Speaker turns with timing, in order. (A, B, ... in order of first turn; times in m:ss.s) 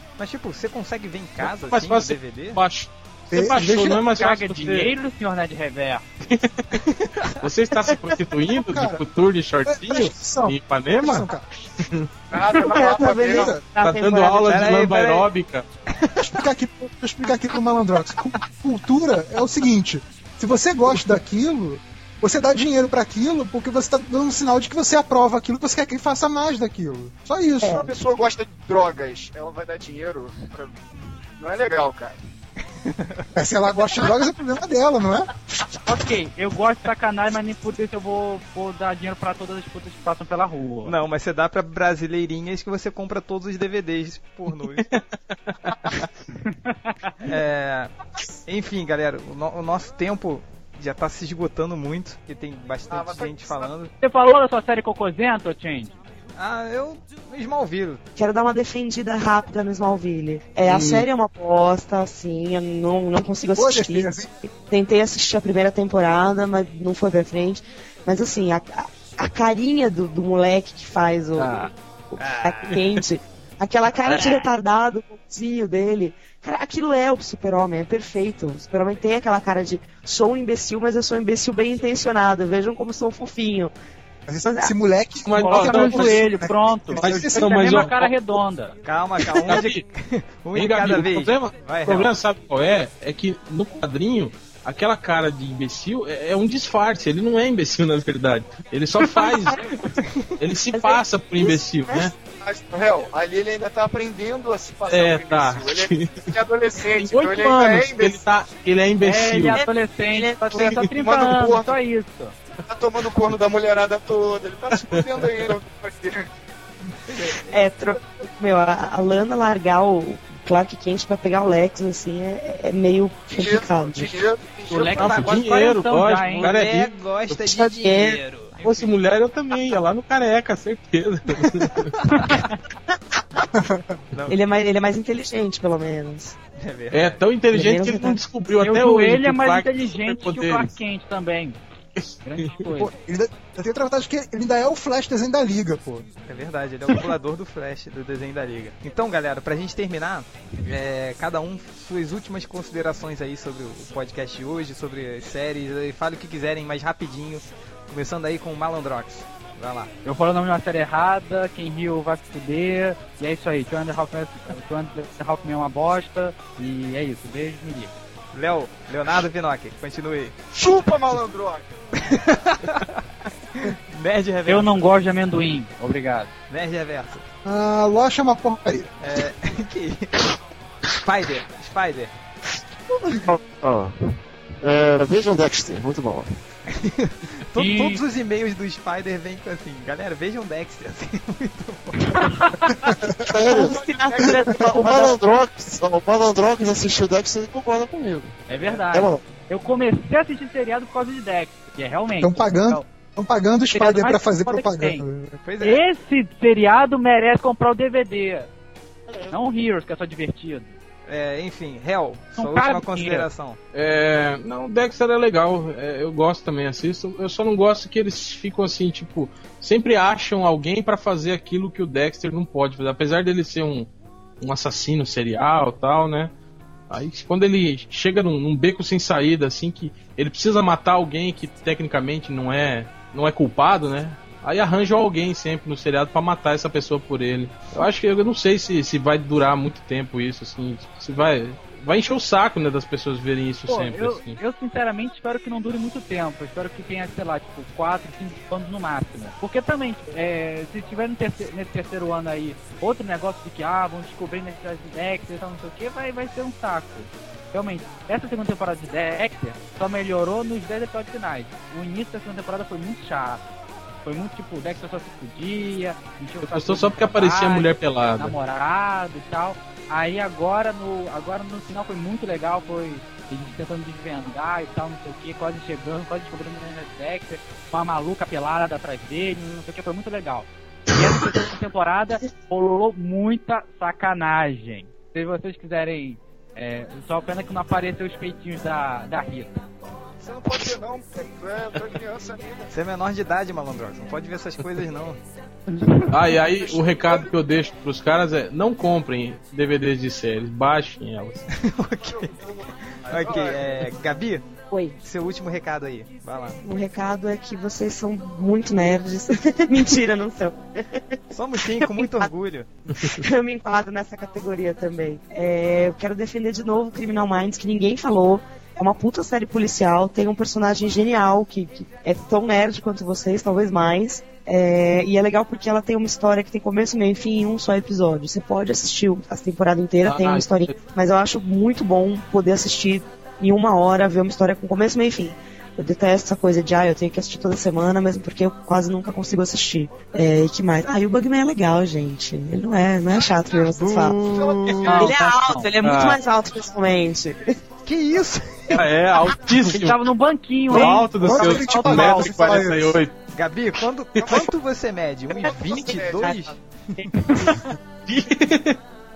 0:00.2-0:02.6 A
0:01.4-0:04.9 B
0:03.3-0:04.0 C
0:03.6-0:06.0 D
0:06.3-0:06.8 B
0:06.8-0:07.4 A
0:07.4-0:12.1 B
0:08.6-0:09.0 C
0:09.7-0:11.4 C
0:12.3-0:13.5 E
0:12.5-0:14.6 F
0:13.0-0:13.6 C
0:13.8-0:15.6 B
0:14.5-0:15.3 A
0:15.9-0:16.4 A
0:16.2-0:27.9 C
0:27.6-0:27.9 F
0:27.8-0:30.8 E
0:31.4-0:32.1 E
0:32.8-0:33.3 A
0:33.4-0:35.3 C
0:35.8-0:41.0 D
0:40.8-0:44.9 A
0:47.2-0:47.9 A
0:48.4-0:53.9 A
0:52.9-0:53.7 E
0:54.0-0:56.0 D
0:56.4-0:58.0 A
0:58.2-1:11.7 F
1:00.6-1:01.1 B
1:03.5-1:04.3 C
1:11.4-1:11.7 D
1:12.1-1:12.9 A
1:12.4-1:23.7 F
1:14.1-1:14.4 D
1:24.3-1:27.9 C
1:24.4-1:24.7 F
1:25.3-1:26.2 B
1:25.4-1:28.8 D
1:26.9-1:28.1 B
1:28.8-1:32.1 A
1:29.5-1:29.8 B
1:30.6-1:39.7 B
1:39.0-1:39.9 F
1:40.4-1:42.1 B
1:40.7-1:42.1 F
1:42.4-1:48.2 E
1:44.9-1:46.3 B
1:46.9-1:49.6 B
1:49.0-1:52.3 D
1:49.5-1:50.7 F
1:50.5-1:51.7 E
1:50.6-1:50.9 B
1:52.7-1:56.3 E
1:57.1-1:57.7 A
1:57.5-2:04.2 F
2:03.4-2:05.2 E
2:04.7-2:06.5 D
2:04.7-2:06.9 B
2:05.0-2:05.4 A
2:06.3-2:08.9 A
2:07.4-2:08.2 F
2:08.6-2:11.9 B
2:11.3-2:12.5 A
2:12.1-2:12.4 D
2:13.6-2:13.8 C
2:14.1-2:14.4 A
2:14.3-2:16.4 F
2:16.6-2:17.2 A
2:16.9-2:20.7 B
2:17.5-2:18.2 F
2:18.6-2:21.6 D
2:22.0-2:22.6 B
2:22.2-2:22.9 D
2:22.7-2:26.1 C
2:26.3-2:39.9 A
2:40.0-2:47.9 D
2:48.3-2:50.4 A
2:50.5-2:51.7 E
2:52.0-2:53.0 A
2:53.5-2:54.7 A
2:54.5-2:56.3 D
2:56.5-2:57.3 A
2:57.4-2:58.9 C
2:59.0-3:00.2 A
3:01.0-3:02.1 A
3:03.1-3:03.9 G
3:04.6-3:06.3 G
3:06.7-3:12.3 A
3:07.6-3:08.0 D
3:12.2-3:12.7 D
3:13.3-3:19.3 G
3:13.5-3:15.2 F
3:18.5-3:22.9 D
3:18.5-3:18.8 A
3:22.2-3:25.4 C
3:23.7-3:25.0 D
3:25.4-3:25.8 A
3:25.6-3:28.5 D
3:29.3-3:30.7 D
3:31.1-3:33.6 A
3:32.4-3:33.3 D
3:33.7-3:43.9 B
3:44.4-3:46.3 B
3:46.9-4:04.4 B
4:03.7-4:23.4 D
4:24.0-4:49.6 D
4:26.4-4:28.4 B
4:50.2-4:52.7 E
4:52.7-4:55.2 A
4:56.1-5:01.5 B
4:56.6-4:57.3 E
5:01.5-5:02.4 A
5:02.1-5:03.9 E
5:03.0-5:04.5 A
5:04.7-5:05.0 F
5:05.0-5:06.6 A
5:06.6-5:11.2 F
5:11.3-5:12.7 A
5:11.8-5:12.3 F
5:13.0-5:44.2 F
5:30.0-5:30.8 B
5:43.7-5:45.0 A
5:44.3-5:45.1 E
5:44.9-5:45.7 D
5:44.9-5:47.5 F
5:45.8-5:46.2 B
5:47.8-5:48.9 A
5:48.7-5:50.0 B
5:49.7-5:52.6 D
5:50.7-5:53.0 C
5:50.7-5:53.1 B
5:53.3-5:56.6 A
5:54.2-5:54.5 E
5:55.3-5:56.5 E
5:55.4-5:57.1 F
5:58.1-5:58.8 B